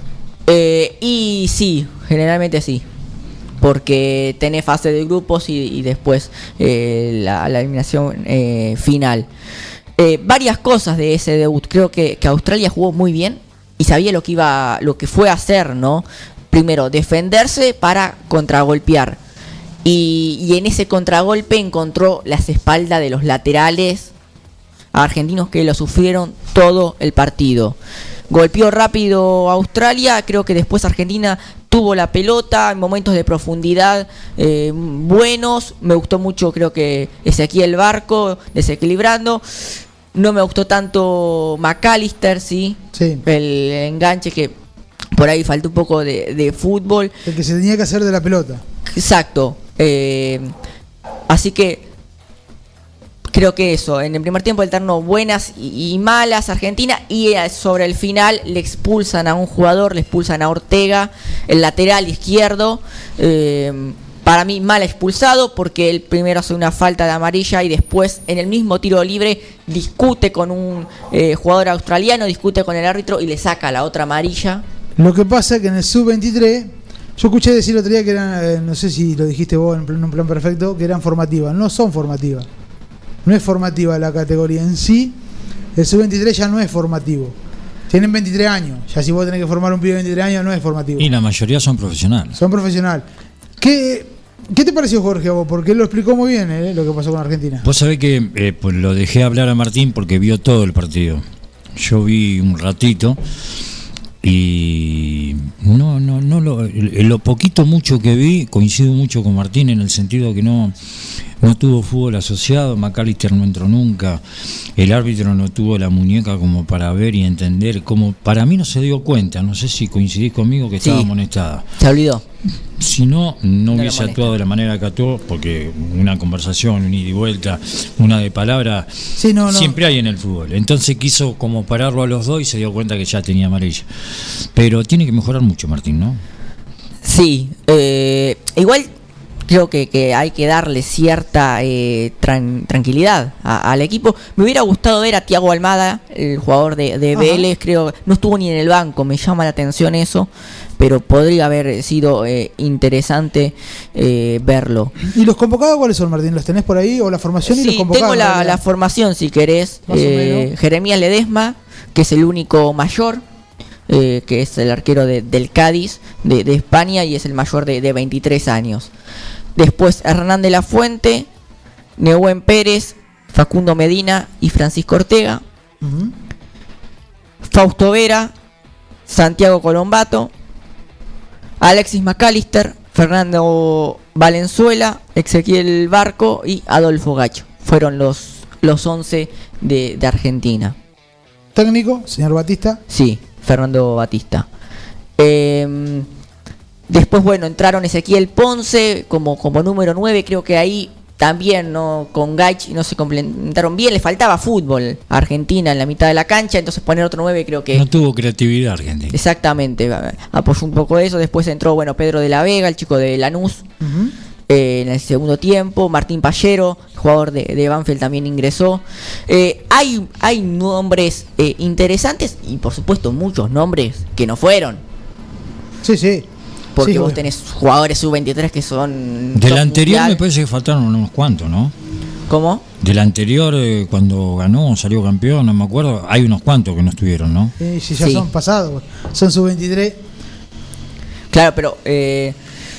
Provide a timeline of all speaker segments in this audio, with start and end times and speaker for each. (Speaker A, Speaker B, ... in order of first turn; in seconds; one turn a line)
Speaker A: 0.5-2.9
Speaker A: 3.6-9.3
Speaker A: 10.0-19.2
Speaker A: 19.8-24.1
Speaker A: 24.9-27.8
Speaker A: 28.3-44.5
Speaker B: 42.9-43.2
Speaker A: 45.1-47.1
Speaker B: 47.2-48.6
Speaker A: 48.9-50.5
Speaker A: 51.3-51.9
Speaker A: 53.3-74.6
Speaker B: 75.0-82.5
Speaker B: 83.2-85.2
Speaker B: 85.8-87.4
Speaker B: 87.9-91.1
Speaker C: 91.0-92.4
Speaker B: 92.3-93.1
Speaker B: 93.6-97.7
Speaker C: 97.6-101.2
Speaker C: 101.8-103.2
Speaker C: 104.2-114.2
Speaker C: 114.8-121.7
Speaker A: 120.8-121.1
Speaker A: 121.8-122.2
Speaker C: 122.8-136.2
Speaker A: 123.7-124.3
Speaker B: 129.2-129.8
Speaker A: 137.0-138.9
Speaker A: 139.5-154.9
Speaker B: 147.1-147.5
Speaker B: 155.1-158.6
Speaker A: 157.5-163.2
Speaker B: 159.9-160.5
Speaker A: 163.9-168.9
Speaker A: 169.6-171.3
Speaker A: 172.0-175.4
Speaker B: 175.8-176.1
Speaker A: 177.4-178.3
Speaker A: 179.1-180.3
Speaker A: 181.6-190.8
Speaker B: 191.6-192.8
Speaker A: 192.9-194.5
Speaker A: 195.2-196.1
Speaker A: 196.9-207.8
Speaker C: 207.7-209.1
Speaker A: 209.1-213.6
Speaker B: 213.8-214.1
Speaker A: 214.5-224.8
Speaker B: 225.8-226.3
Speaker A: 226.8-230.2
Speaker B: 226.8-227.2
Speaker C: 229.3-231.7
Speaker A: 232.3-232.6
Speaker C: 232.8-237.5
Speaker B: 237.6-240.0
Speaker A: 238.0-238.3
Speaker A: 241.3-242.4